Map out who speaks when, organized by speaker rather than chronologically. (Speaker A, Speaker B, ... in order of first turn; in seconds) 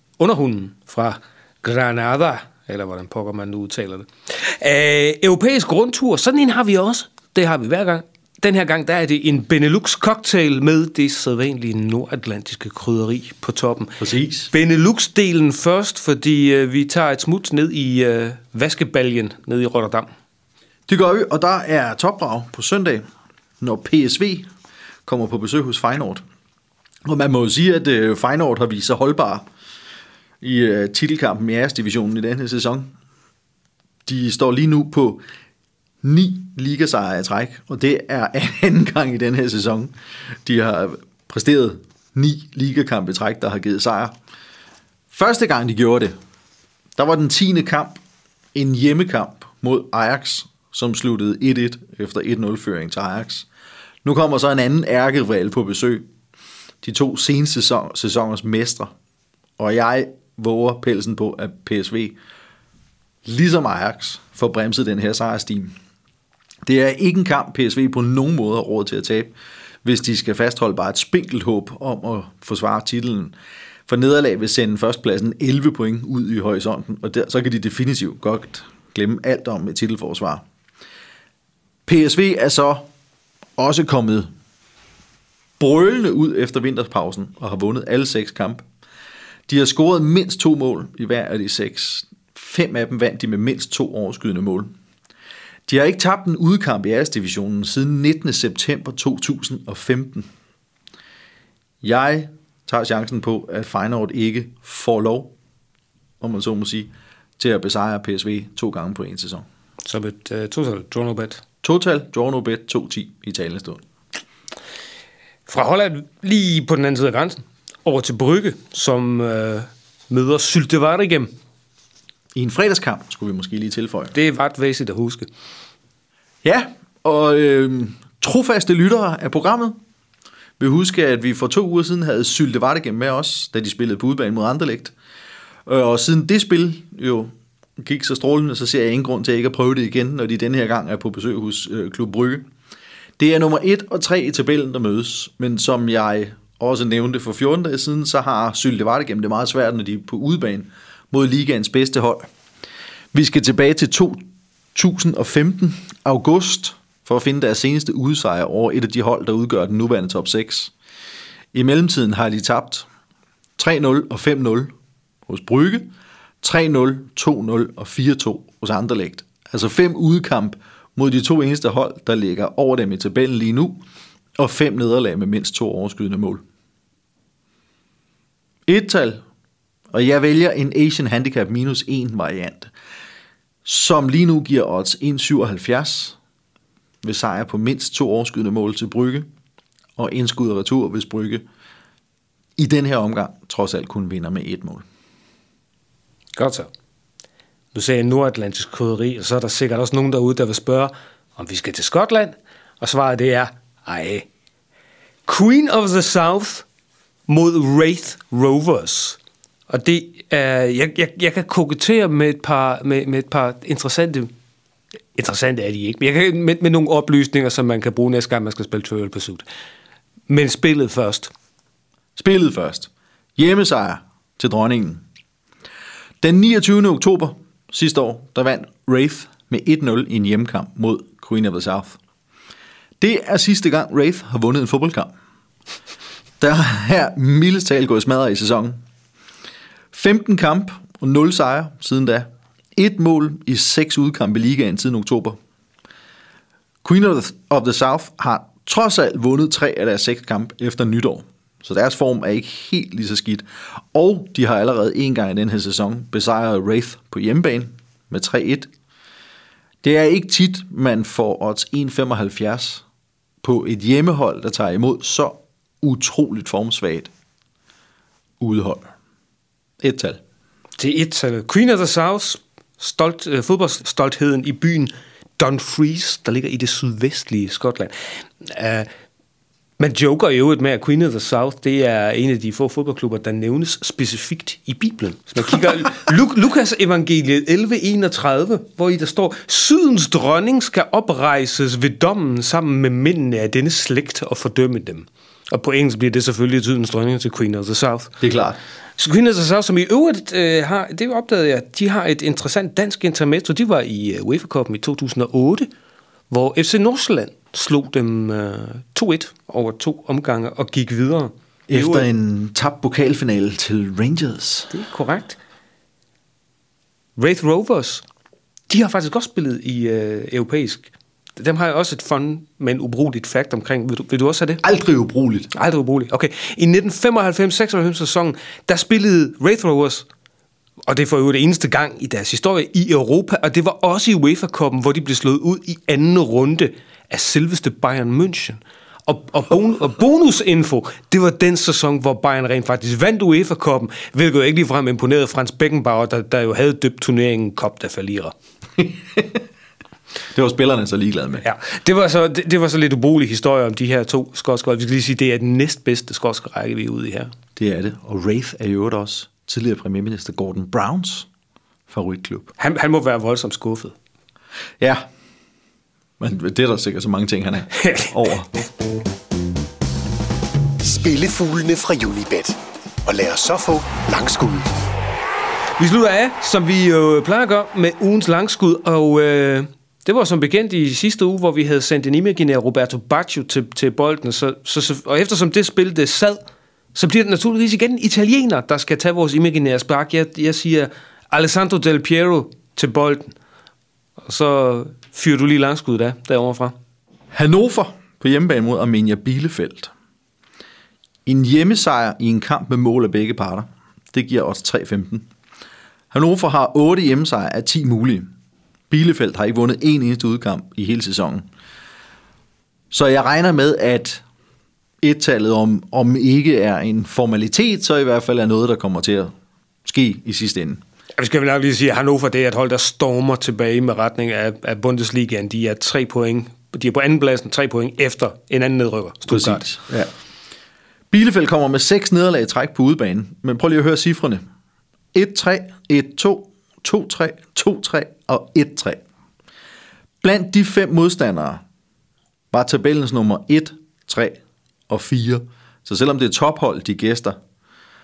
Speaker A: 0.2-20.1, 109.8-111.4, 115.5-121.3, 124.1-125.3, 196.3-196.7, 197.7-204.3, 205.3-206.7, 207.3-209.2, 209.7-214.3, 215.2-219.4, 220.3-221.3, 270.8-278.9, 279.8-298.1, 299.0-305.7, 306.3-312.1, 314.7-315.4, 317.2-318.0, 318.7-324.6, 325.5-330.1, 330.9-348.3, 351.4-357.3, 362.6-363.9, 367.8-368.1, 375.8-386.4, 386.9-393.3, 394.2-396.7, 421.2-429.6
Speaker B: 14.0-14.5, 20.9-23.0, 23.6-24.5, 25.1-26.2, 27.1-29.4, 30.4-32.9, 34.0-35.2, 36.0-39.9, 40.4-44.1, 45.1-46.1, 47.0-48.0, 48.5-53.5, 54.0-56.0, 56.8-58.9, 59.6-62.1, 63.2-65.7, 66.7-69.3, 69.8-73.3, 73.9-80.4, 81.8-82.8, 83.6-84.3, 85.6-88.6, 89.5-94.7, 95.7-100.3, 101.8-105.3, 106.2-109.5, 111.6-113.8, 122.3-124.1, 126.4-129.8, 130.6-134.9, 135.7-142.4, 143.2-152.3, 153.1-154.2, 154.7-160.7, 161.5-162.8, 163.6-164.7, 165.3-165.9, 166.4-173.8, 174.4-176.4, 178.7-179.2, 179.9-182.7, 183.6-186.2, 187.0-189.3, 190.0-191.4, 192.6-194.8, 222.2-225.0, 226.2-232.0, 233.0-235.1, 236.4-238.8, 239.9-245.4, 246.8-258.7, 259.8-262.8, 263.4-267.1, 268.4-268.9, 269.8-270.2, 298.2-298.6, 311.7-314.7, 324.6-325.5, 348.8-349.4, 350.3-351.4, 357.6-361.3, 361.9-362.5, 364.8-365.1, 366.2-368.5, 397.3-399.9, 401.2-405.3, 406.1-408.3, 408.9-411.4, 412.9-414.2, 415.0-419.3, 419.9-420.8, 429.3-430.1, 431.1-434.4, 435.1-439.0, 440.2-441.6, 442.5-447.4
Speaker C: 370.8-374.7